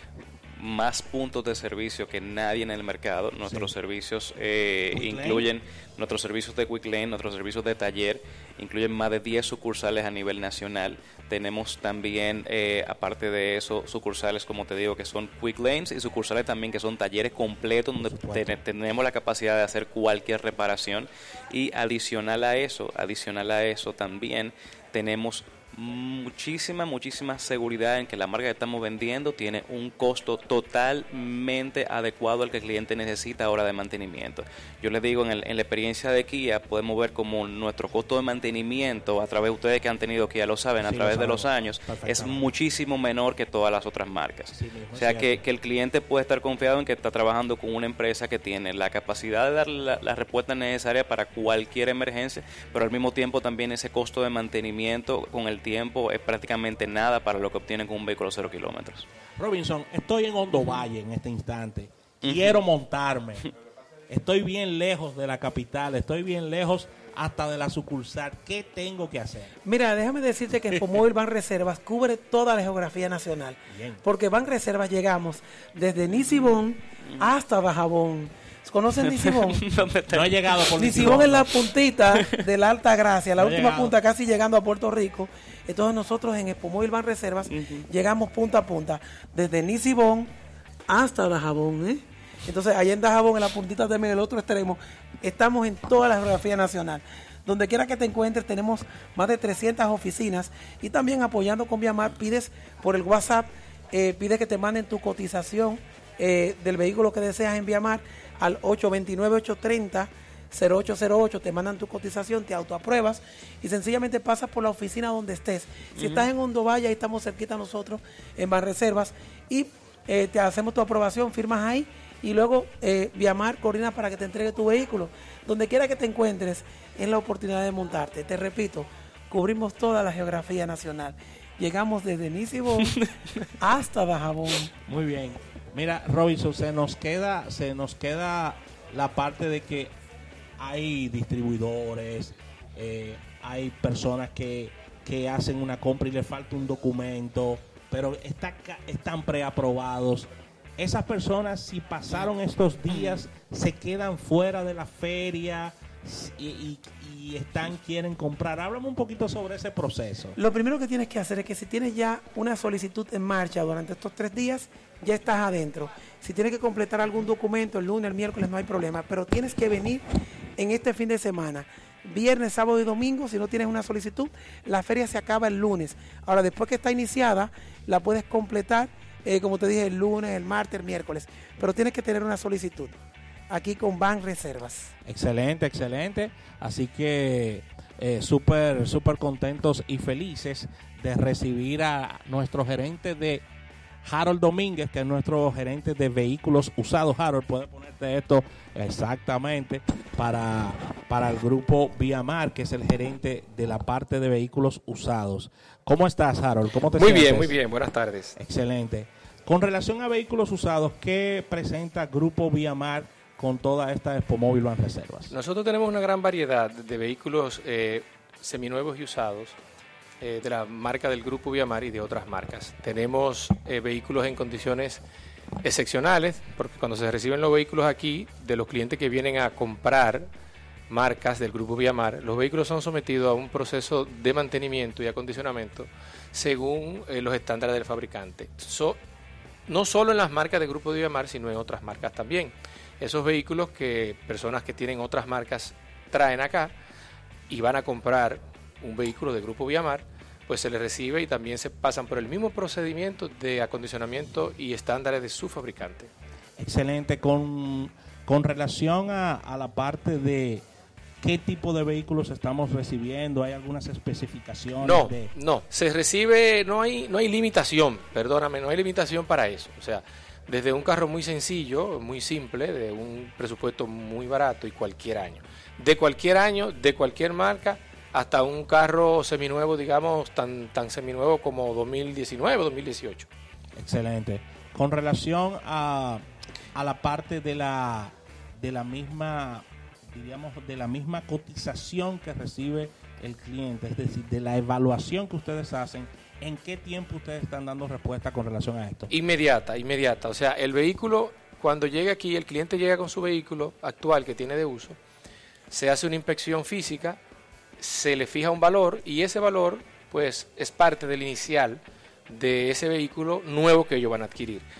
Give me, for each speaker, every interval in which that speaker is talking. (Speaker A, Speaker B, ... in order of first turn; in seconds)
Speaker A: 0.6-59.1, 62.2-62.6, 79.0-81.2, 82.1-82.5, 87.5-87.8, 116.0-116.3, 132.8-133.5
Speaker B: 3.4-3.7, 4.9-5.5, 18.0-18.6, 40.8-42.5, 44.5-45.4, 59.4-63.5, 64.1-69.5, 73.7-74.0, 80.1-81.5, 83.4-83.9, 134.9-139.9, 140.6-160.4, 185.1-193.4, 194.0-207.6, 208.4-215.3, 256.6-260.6, 261.2-265.3, 283.8-286.2, 286.8-299.1
Speaker C: 69.7-79.6, 80.8-90.3, 90.9-132.9, 133.6-134.7, 160.4-170.0, 170.6-183.0, 183.5-184.9
Speaker D: 206.9-208.4, 215.3-219.6, 220.2-225.0, 225.6-230.3, 230.9-239.0, 239.7-246.7, 247.5-256.1, 264.8-283.3, 299.1-305.0, 305.7-307.2, 307.8-314.6